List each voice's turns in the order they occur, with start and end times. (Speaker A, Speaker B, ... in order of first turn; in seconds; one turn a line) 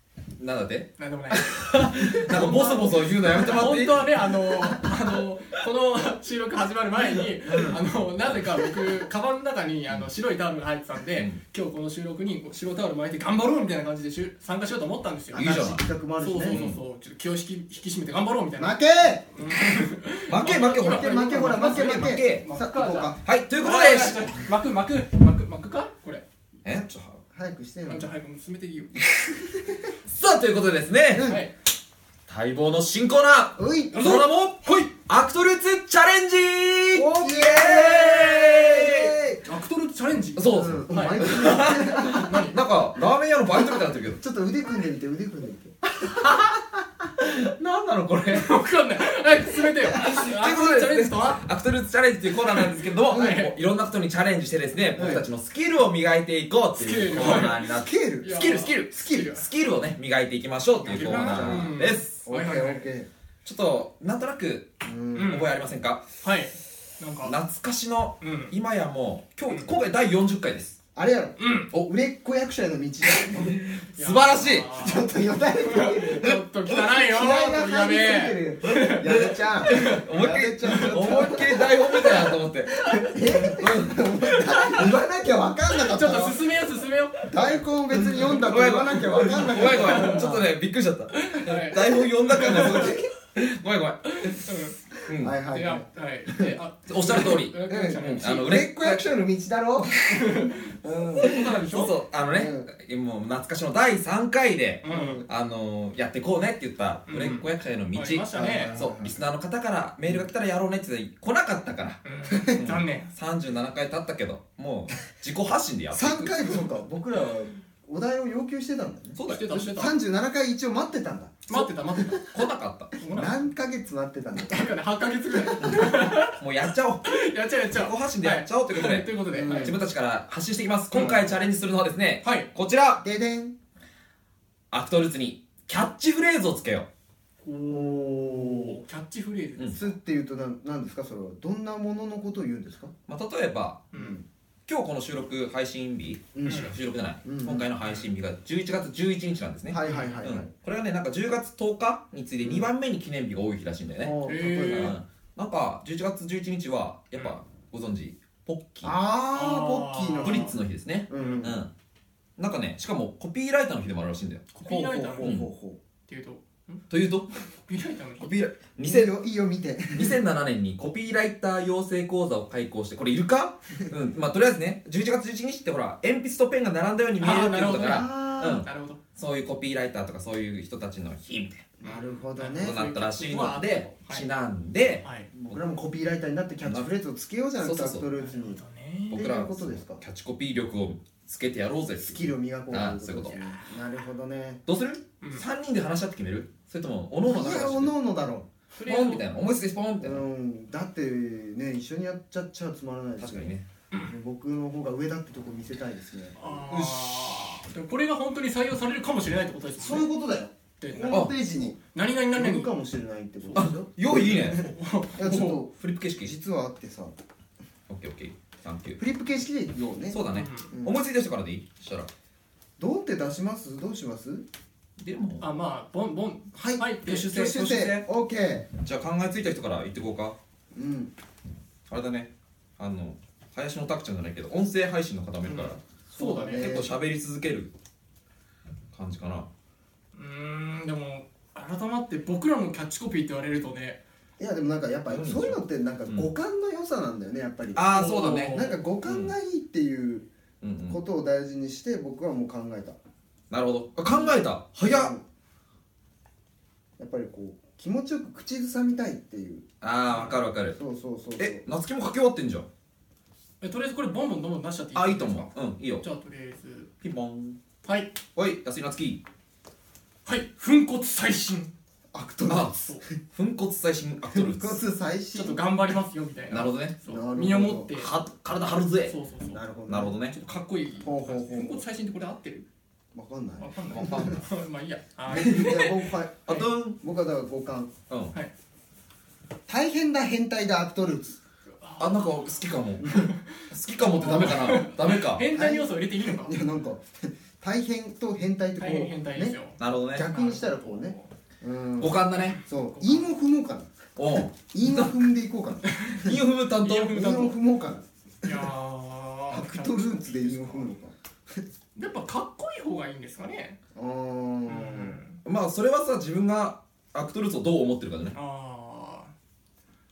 Speaker A: 0.4-4.3
Speaker B: 1.0-18.8
Speaker A: 7.2-8.7
Speaker C: 7.5-7.8
Speaker A: 15.3-15.8
Speaker C: 15.3-16.6
Speaker A: 16.4-16.8
Speaker C: 18.6-19.9
Speaker B: 19.4-26.2
Speaker A: 20.3-22.4
Speaker C: 20.6-23.2
Speaker A: 23.2-24.4
Speaker A: 26.6-27.2
Speaker C: 27.3-28.1
Speaker B: 27.9-28.9
Speaker C: 29.3-29.9
Speaker A: 30.1-31.3
Speaker C: 31.1-31.4
Speaker B: 31.3-31.5
Speaker A: 32.3-39.1
Speaker C: 33.5-34.1
Speaker B: 33.9-34.9
Speaker C: 36.9-39.4
Speaker B: 39.4-42.6
Speaker A: 40.4-44.2
Speaker C: 40.5-42.3
Speaker C: 43.5-45.8
Speaker A: 46.0-46.6
Speaker A: 47.2-48.5
Speaker B: 48.3-51.4
Speaker A: 49.9-62.2
Speaker B: 52.5-53.5
Speaker C: 53.1-53.4
Speaker C: 54.9-55.2
Speaker B: 56.7-57.7
Speaker C: 57.7-58.4
Speaker B: 58.2-59.5
Speaker C: 58.9-59.4
Speaker B: 60.8-62.9
Speaker C: 60.9-63.1
Speaker A: 63.4-66.0
Speaker C: 64.8-65.4
Speaker B: 65.2-65.5
Speaker B: 66.2-67.4
Speaker A: 67.2-70.8
Speaker B: 68.2-68.5
Speaker C: 70.9-73.6
Speaker B: 71.4-71.7
Speaker A: 73.2-74.7
Speaker B: 74.0-80.0
Speaker C: 74.7-86.4
Speaker A: 78.8-85.0
Speaker B: 80.6-81.3
Speaker B: 85.7-87.6
Speaker C: 87.3-90.5
Speaker A: 88.1-94.5
Speaker B: 89.5-90.4
Speaker B: 91.1-93.0
Speaker B: 94.2-94.8
Speaker A: 95.0-95.4
Speaker C: 95.2-96.5
Speaker B: 95.5-98.4
Speaker A: 96.9-99.1
Speaker C: 97.7-101.5
Speaker B: 100.1-102.0
Speaker A: 101.2-116.6
Speaker C: 102.3-102.7
Speaker B: 104.8-105.2
Speaker C: 104.9-105.2
Speaker B: 107.1-108.8
Speaker C: 108.3-109.1
Speaker B: 112.0-113.1
Speaker C: 112.3-112.6
Speaker C: 115.9-119.2
Speaker A: 119.2-119.8
Speaker B: 119.3-119.9
Speaker C: 119.7-122.2
Speaker B: 121.5-122.3
Speaker A: 122.3-122.9
Speaker B: 123.0-123.5
Speaker C: 123.1-124.7
Speaker B: 124.3-129.8
Speaker C: 125.3-125.9
Speaker A: 125.6-127.2
Speaker A: 127.7-133.0
Speaker C: 129.3-129.8
Speaker B: 130.9-131.3
Speaker B: 132.2-132.5
Speaker C: 133.0-133.5
Speaker A: 134.7-136.9
Speaker B: 137.4-139.9
Speaker C: 137.7-138.8
Speaker C: 139.7-142.9
Speaker A: 143.1-143.9
Speaker B: 143.9-144.2
Speaker C: 143.9-144.2
Speaker A: 144.7-158.9
Speaker C: 146.3-146.7
Speaker B: 146.4-146.7
Speaker C: 147.2-147.7
Speaker C: 149.7-150.5
Speaker B: 149.8-150.2
Speaker C: 152.4-152.7
Speaker C: 154.0-155.0
Speaker B: 154.2-155.0
Speaker C: 158.8-160.6
Speaker B: 159.3-160.6
Speaker A: 160.2-161.7
Speaker C: 161.1-161.6
Speaker B: 161.1-161.5
Speaker A: 162.4-164.4
Speaker B: 164.5-165.4
Speaker C: 164.6-165.8
Speaker A: 165.2-165.5
Speaker B: 166.1-166.8
Speaker A: 166.9-167.4
Speaker B: 167.7-168.3
Speaker A: 168.2-169.1
Speaker C: 168.8-170.2
Speaker A: 169.9-181.7
Speaker B: 177.2-179.0
Speaker C: 177.8-178.6
Speaker C: 181.8-182.8
Speaker B: 181.8-184.3
Speaker A: 182.5-185.6
Speaker B: 185.0-185.3
Speaker C: 185.3-188.6
Speaker A: 187.6-188.1
Speaker B: 188.1-189.3
Speaker A: 189.1-193.4
Speaker C: 189.1-190.0
Speaker C: 192.0-194.6
Speaker B: 193.2-193.7
Speaker A: 194.7-197.9
Speaker C: 197.2-198.5
Speaker B: 198.7-199.3
Speaker A: 198.8-200.2
Speaker C: 200.0-206.4
Speaker A: 203.2-203.7
Speaker B: 206.4-210.1
Speaker A: 206.7-206.9
Speaker C: 209.8-211.8
Speaker B: 210.8-212.7
Speaker C: 212.3-217.1
Speaker B: 213.4-215.6
Speaker A: 213.5-214.7
Speaker A: 215.7-216.3
Speaker A: 217.9-219.0
Speaker C: 219.0-221.0
Speaker A: 220.1-222.1
Speaker B: 220.3-220.7
Speaker C: 222.8-224.4
Speaker A: 225.0-225.5
Speaker B: 225.4-227.3
Speaker C: 226.5-228.7
Speaker A: 227.0-228.1
Speaker A: 228.8-230.3
Speaker C: 230.7-231.1
Speaker A: 231.9-237.7
Speaker B: 235.4-236.7
Speaker C: 236.1-236.9
Speaker A: 238.9-239.5
Speaker B: 240.1-244.0
Speaker C: 244.4-250.3
Speaker A: 245.1-246.3
Speaker A: 247.7-249.3
Speaker B: 247.9-248.8
Speaker A: 250.6-251.0
Speaker C: 250.9-253.0
Speaker A: 253.5-255.1
Speaker C: 254.1-255.2
Speaker C: 257.0-259.6
Speaker A: 259.8-260.8
Speaker B: 260.1-260.4
Speaker C: 260.7-261.6
Speaker A: 261.4-262.7
Speaker B: 263.6-266.9
Speaker A: 264.9-266.0
Speaker A: 267.0-267.6
Speaker B: 267.8-268.1
Speaker A: 268.4-269.2
Speaker B: 270.2-271.7
Speaker C: 272.1-272.7
Speaker A: 272.5-274.8
Speaker B: 272.7-273.0
Speaker C: 274.3-275.9
Speaker B: 275.3-278.1
Speaker A: 276.5-276.9
Speaker C: 277.1-277.9
Speaker A: 277.9-279.1
Speaker B: 279.1-282.7
Speaker C: 279.5-280.1
Speaker A: 279.9-280.3
Speaker C: 281.0-281.8
Speaker C: 283.1-284.4
Speaker B: 283.6-286.6
Speaker A: 283.9-284.4
Speaker C: 285.3-287.9
Speaker A: 285.4-285.8
Speaker A: 286.5-287.0
Speaker A: 288.1-288.3
Speaker C: 289.7-291.4
Speaker B: 291.8-296.6
Speaker A: 292.0-295.5
Speaker C: 293.0-293.3
Speaker C: 294.2-294.8
Speaker C: 295.5-299.6
Speaker B: 298.8-301.3
Speaker A: 299.8-300.3
Speaker C: 300.1-303.9
Speaker A: 302.0-302.6
Speaker B: 302.4-303.3
Speaker A: 304.1-305.1
Speaker C: 304.6-306.4
Speaker B: 305.9-306.2
Speaker A: 306.1-307.3
Speaker B: 306.8-307.6
Speaker C: 307.1-308.7
Speaker B: 308.4-310.9
Speaker C: 309.5-311.6
Speaker B: 311.9-313.8
Speaker C: 313.9-315.2
Speaker B: 314.7-315.4
Speaker A: 315.4-318.4
Speaker B: 318.3-319.3